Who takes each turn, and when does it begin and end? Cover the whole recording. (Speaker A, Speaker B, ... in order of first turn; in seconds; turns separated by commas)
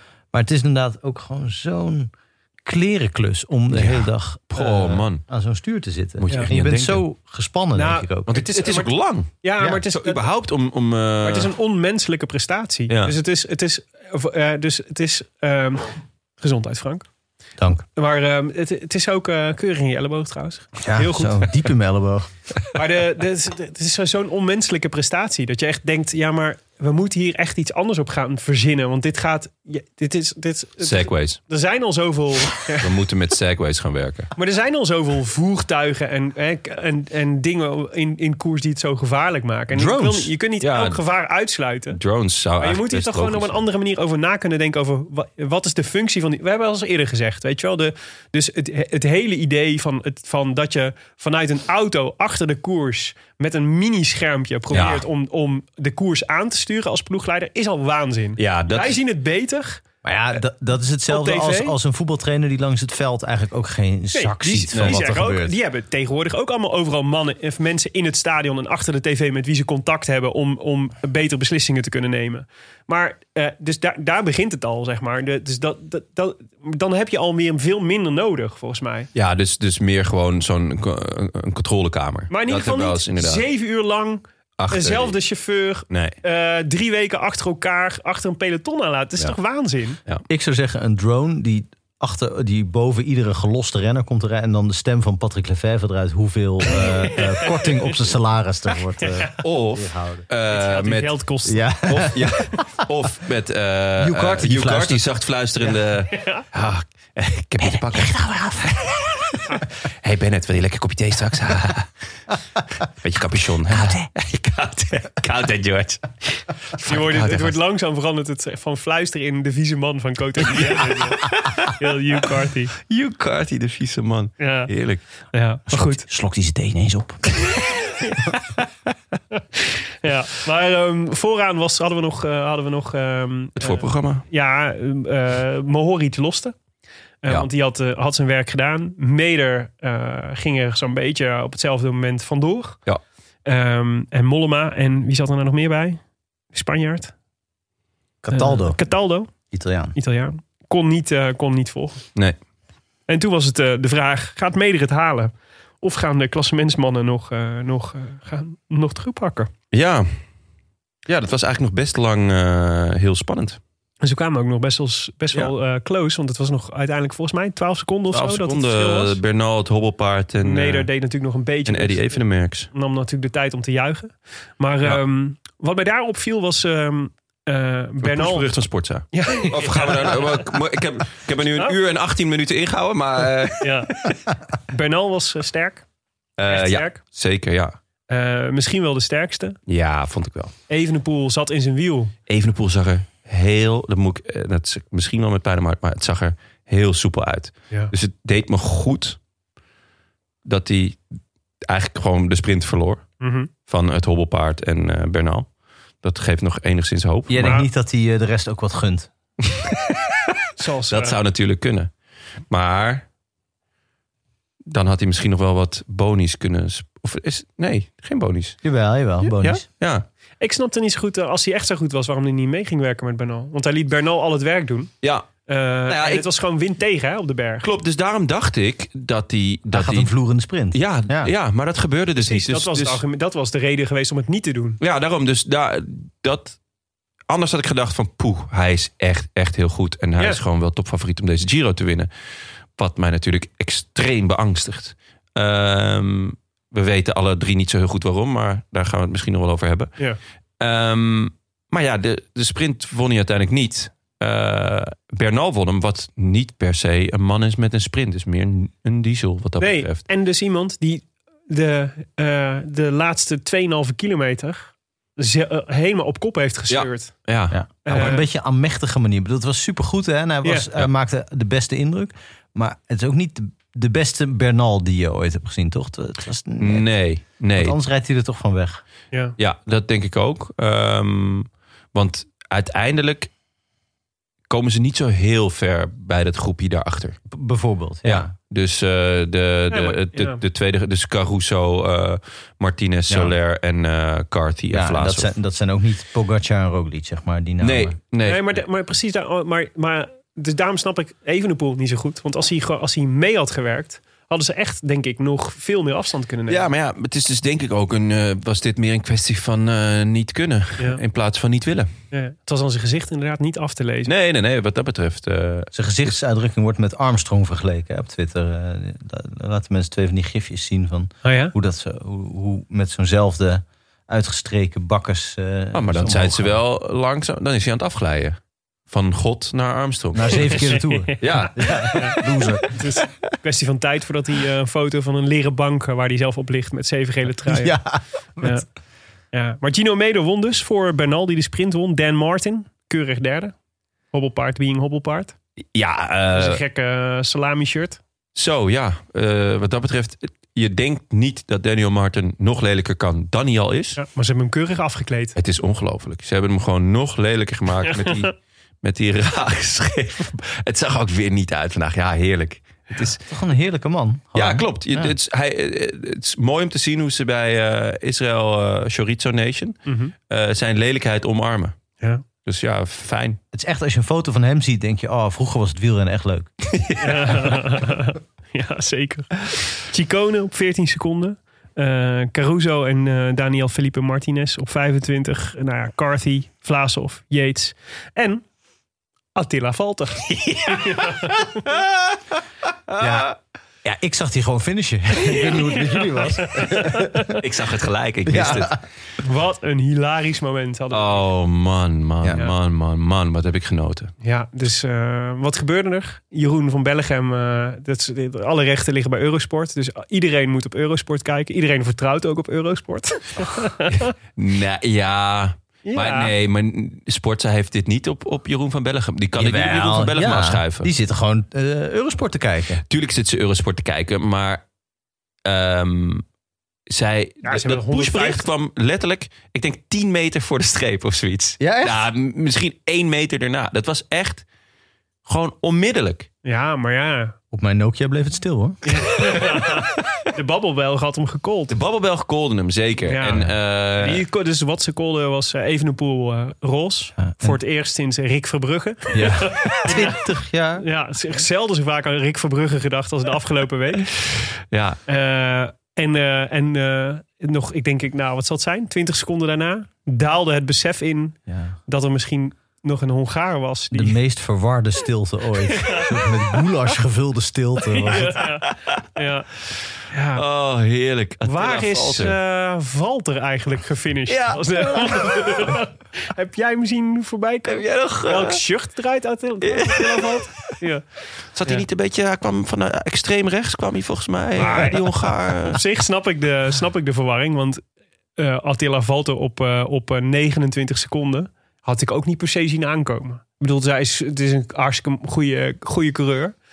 Speaker A: 0.3-2.1, Speaker A: 2.6-8.3, Speaker B: 3.7-5.2, Speaker B: 6.2-7.0, Speaker C: 7.7-10.2, Speaker B: 8.3-11.5, Speaker C: 11.2-17.1, Speaker B: 12.9-13.1, Speaker A: 17.6-17.8, Speaker C: 17.9-21.6, Speaker A: 20.8-22.3, Speaker C: 22.7-32.9, Speaker B: 30.8-31.4, Speaker B: 32.8-34.3, Speaker C: 34.4-42.0, Speaker A: 39.7-40.3, Speaker B: 40.6-41.0, Speaker B: 41.9-43.6, Speaker C: 42.6-59.8, Speaker B: 54.7-55.0, Speaker B: 58.4-59.0, Speaker A: 60.0-65.5, Speaker C: 61.1-61.8, Speaker C: 64.1-79.1, Speaker B: 64.7-65.0, Speaker B: 79.1-83.4, Speaker C: 82.3-90.0, Speaker B: 84.6-85.2, Speaker B: 85.9-86.2, Speaker A: 90.3-100.3, Speaker C: 96.8-97.9, Speaker C: 99.0-99.3, Speaker B: 99.4-101.2, Speaker C: 100.5-101.7, Speaker A: 101.4-102.6, Speaker B: 101.8-109.4, Speaker A: 104.0-105.0, Speaker C: 105.6-106.4, Speaker A: 107.6-108.6, Speaker B: 110.0-111.9, Speaker B: 112.9-117.6, Speaker A: 113.7-114.0, Speaker C: 116.8-122.7, Speaker B: 120.5-121.7, Speaker B: 122.8-125.0, Speaker C: 124.4-124.7, Speaker C: 125.3-126.0, Speaker A: 125.7-127.3, Speaker C: 129.3-136.5, Speaker B: 133.6-134.2, Speaker C: 137.2-142.8, Speaker C: 143.4-146.0, Speaker C: 146.5-147.1, Speaker A: 148.2-148.8, Speaker C: 148.3-149.3, Speaker A: 149.5-149.9, Speaker C: 149.9-152.0, Speaker C: 153.1-159.5, Speaker B: 159.7-160.1, Speaker B: 161.1-163.6, Speaker C: 164.0-169.2, Speaker B: 168.1-170.9, Speaker C: 170.4-178.5, Speaker B: 171.7-172.7, Speaker B: 178.0-184.1, Speaker C: 179.1-180.2, Speaker C: 183.6-184.1, Speaker C: 184.7-185.8, Speaker B: 186.4-187.8, Speaker C: 186.5-187.0, Speaker C: 188.1-189.6, Speaker B: 189.7-190.5, Speaker C: 190.7-192.1, Speaker B: 192.3-199.2, Speaker B: 200.4-201.0, Speaker B: 201.7-203.1, Speaker C: 203.2-203.5, Speaker B: 203.7-205.5, Speaker B: 206.0-207.6, Speaker A: 207.3-209.1, Speaker C: 207.4-207.7, Speaker B: 209.5-209.9, Speaker C: 210.6-211.2, Speaker B: 210.9-211.9, Speaker B: 212.5-213.0, Speaker B: 214.7-218.6, Speaker A: 218.6-219.6, Speaker B: 219.4-220.0, Speaker C: 220.4-224.9, Speaker B: 225.0-225.3, Speaker C: 225.5-227.7, Speaker B: 225.9-226.3, Speaker B: 227.6-230.1, Speaker A: 229.7-231.3, Speaker B: 230.7-233.0, Speaker C: 232.2-234.8, Speaker B: 234.8-236.6, Speaker B: 237.3-242.1, Speaker B: 242.8-249.9, Speaker B: 250.6-260.0, Speaker C: 259.6-267.1, Speaker B: 266.7-267.6, Speaker A: 267.5-276.9, Speaker C: 267.8-268.2, Speaker C: 270.4-270.7, Speaker B: 276.6-277.8, Speaker A: 277.6-278.8, Speaker B: 279.4-283.3, Speaker B: 284.5-287.2, Speaker A: 287.3-288.3, Speaker B: 288.0-295.3, Speaker C: 289.7-290.4, Speaker A: 293.1-293.3, Speaker A: 294.7-297.9, Speaker B: 297.6-298.6, Speaker C: 298.2-306.7, Speaker B: 306.5-311.9, Speaker C: 312.1-314.1, Speaker B: 314.0-315.7, Speaker A: 315.7-326.6, Speaker C: 321.2-321.5, Speaker B: 325.7-332.3, Speaker A: 330.1-332.7, Speaker C: 330.3-332.2, Speaker C: 332.7-337.8, Speaker A: 337.4-338.6, Speaker C: 338.4-338.6, Speaker C: 339.3-343.5, Speaker C: 344.1-345.3, Speaker B: 345.7-346.6, Speaker C: 346.3-348.0, Speaker B: 348.3-354.0, Speaker C: 353.9-355.4, Speaker B: 355.4-363.2, Speaker C: 357.9-358.2, Speaker A: 363.2-365.1, Speaker B: 364.3-371.7, Speaker C: 369.9-370.1, Speaker B: 372.4-373.4, Speaker A: 373.5-376.5, Speaker B: 376.7-377.5, Speaker C: 377.0-388.4, Speaker C: 389.4-391.4, Speaker B: 390.3-392.2, Speaker B: 392.9-393.3, Speaker A: 393.0-397.4, Speaker C: 396.4-397.4, Speaker B: 397.4-398.8, Speaker A: 398.2-398.8, Speaker C: 399.2-401.2, Speaker B: 400.9-404.1, Speaker C: 404.2-414.1, Speaker B: 413.9-420.9, Speaker C: 415.9-416.3, Speaker A: 419.4-422.8, Speaker B: 422.9-424.6, Speaker B: 425.4-426.2, Speaker B: 426.9-434.4, Speaker C: 427.4-428.4, Speaker A: 431.6-432.0, Speaker B: 435.2-436.3, Speaker C: 436.4-437.3, Speaker A: 437.5-438.8, Speaker C: 438.8-441.7, Speaker B: 441.7-444.2, Speaker C: 443.1-443.5, Speaker C: 444.0-450.1, Speaker A: 447.2-447.6, Speaker A: 449.1-450.9, Speaker C: 450.8-454.1, Speaker B: 454.7-455.0, Speaker C: 455.1-461.4, Speaker A: 461.5-461.8, Speaker C: 461.9-464.2, Speaker A: 463.9-468.4, Speaker C: 465.8-466.1, Speaker C: 467.9-469.5, Speaker B: 468.6-469.0, Speaker C: 470.1-470.4, Speaker B: 470.3-472.4, Speaker C: 471.4-481.1, Speaker B: 474.3-475.7, Speaker B: 477.6-478.6, Speaker B: 479.6-480.7, Speaker B: 481.5-485.8, Speaker C: 484.6-487.8, Speaker C: 488.4-496.5